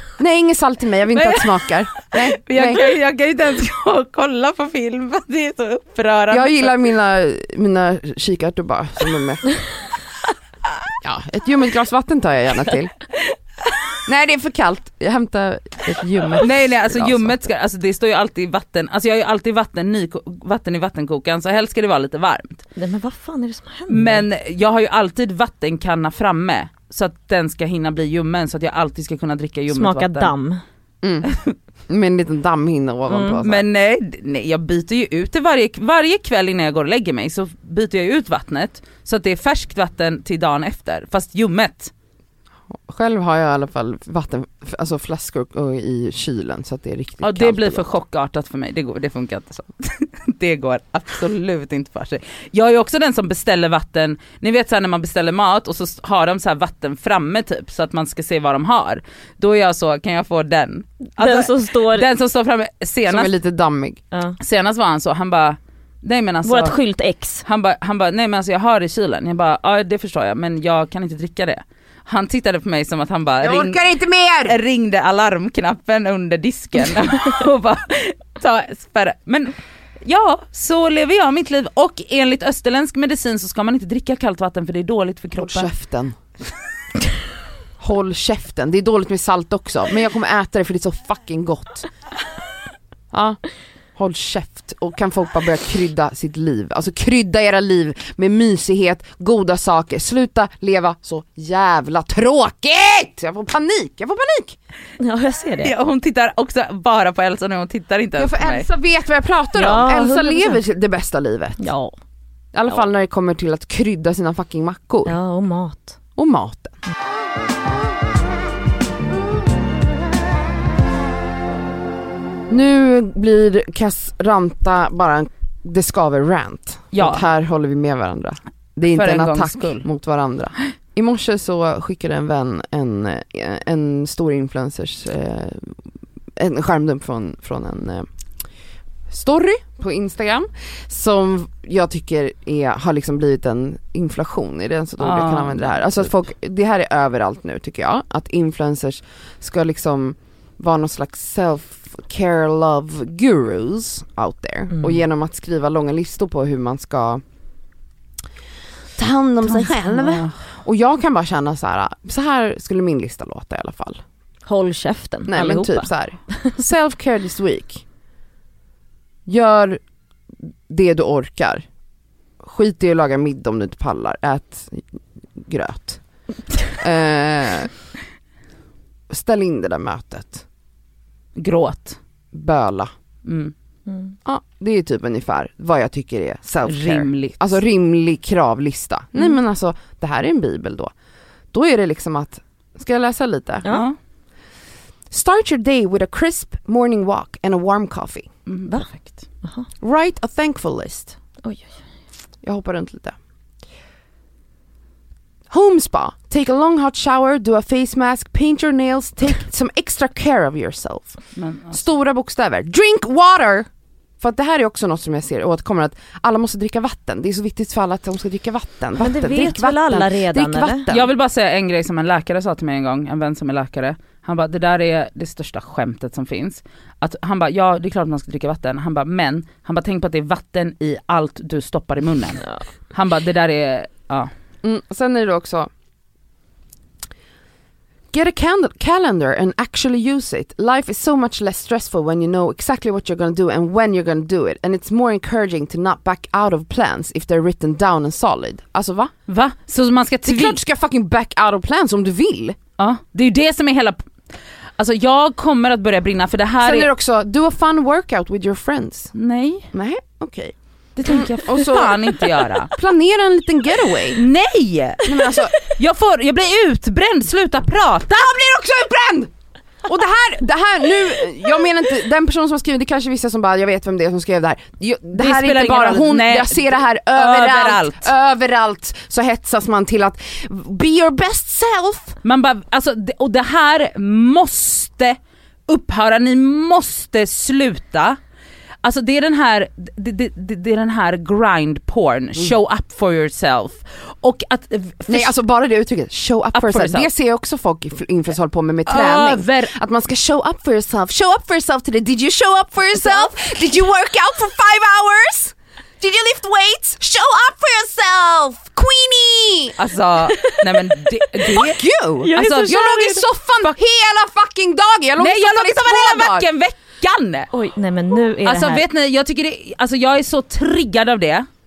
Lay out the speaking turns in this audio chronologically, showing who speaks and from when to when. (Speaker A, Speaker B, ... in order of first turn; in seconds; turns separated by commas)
Speaker A: 0.2-2.9, Speaker B: 1.1-6.7, Speaker A: 6.3-9.4, Speaker A: 11.0-12.9, Speaker A: 14.1-17.4, Speaker B: 16.4-22.6, Speaker C: 22.8-24.2, Speaker B: 23.9-30.3, Speaker C: 29.7-30.6, Speaker A: 31.0-31.3, Speaker A: 31.9-33.6, Speaker B: 33.4-41.9, Speaker A: 42.7-48.0, Speaker B: 47.2-63.3, Speaker C: 61.2-62.1, Speaker A: 63.0-64.0, Speaker B: 64.4-66.8, Speaker C: 66.4-67.4, Speaker B: 67.4-73.8, Speaker A: 73.4-74.6, Speaker B: 74.4-85.7, Speaker A: 85.3-86.2, Speaker A: 87.8-91.9, Speaker A: 93.1-93.4, Speaker A: 94.0-104.6, Speaker C: 105.0-105.7, Speaker B: 105.6-108.7, Speaker A: 108.2-111.6, Speaker C: 109.5-110.6, Speaker C: 111.6-111.9, Speaker A: 112.5-115.1, Speaker C: 115.0-116.0, Speaker A: 116.2-116.8, Speaker A: 122.5-135.8, Speaker B: 126.9-127.2, Speaker B: 128.8-129.8, Speaker A: 136.4-138.1, Speaker A: 139.1-157.2, Speaker B: 145.0-145.9, Speaker A: 158.9-164.0, Speaker B: 159.6-160.3, Speaker C: 164.4-165.9, Speaker A: 165.3-167.8, Speaker A: 169.2-169.8, Speaker A: 170.7-171.6, Speaker A: 172.4-176.0, Speaker A: 176.8-177.7, Speaker A: 179.1-180.4, Speaker B: 181.3-182.0, Speaker A: 182.3-182.9, Speaker B: 183.2-183.5, Speaker C: 183.9-184.1, Speaker A: 184.2-190.9, Speaker B: 186.7-187.5, Speaker A: 191.5-193.7, Speaker B: 193.7-193.9, Speaker A: 195.1-198.3, Speaker B: 198.5-199.2, Speaker A: 199.8-201.2, Speaker A: 202.4-203.2, Speaker A: 205.5-211.2, Speaker B: 211.3-211.8, Speaker A: 211.7-213.7, Speaker A: 214.2-221.1, Speaker C: 219.0-220.8, Speaker B: 220.9-234.3, Speaker A: 234.6-235.7, Speaker A: 238.1-249.1, Speaker B: 249.3-250.6, Speaker A: 250.2-252.6, Speaker B: 252.8-254.0, Speaker B: 254.8-256.9, Speaker A: 256.6-259.1, Speaker B: 259.1-259.7, Speaker A: 259.7-264.2, Speaker B: 261.0-262.7, Speaker B: 264.1-268.2, Speaker A: 265.0-265.5, Speaker A: 268.1-269.3, Speaker A: 269.8-282.2, Speaker B: 275.1-278.1, Speaker B: 282.2-288.2, Speaker B: 288.8-295.3, Speaker A: 295.1-309.8, Speaker B: 296.5-297.1, Speaker B: 298.9-299.7, Speaker B: 309.8-311.8, Speaker A: 311.4-316.5, Speaker C: 312.2-313.2, Speaker B: 312.3-312.9, Speaker B: 315.2-317.5, Speaker C: 317.5-318.8, Speaker B: 318.4-321.4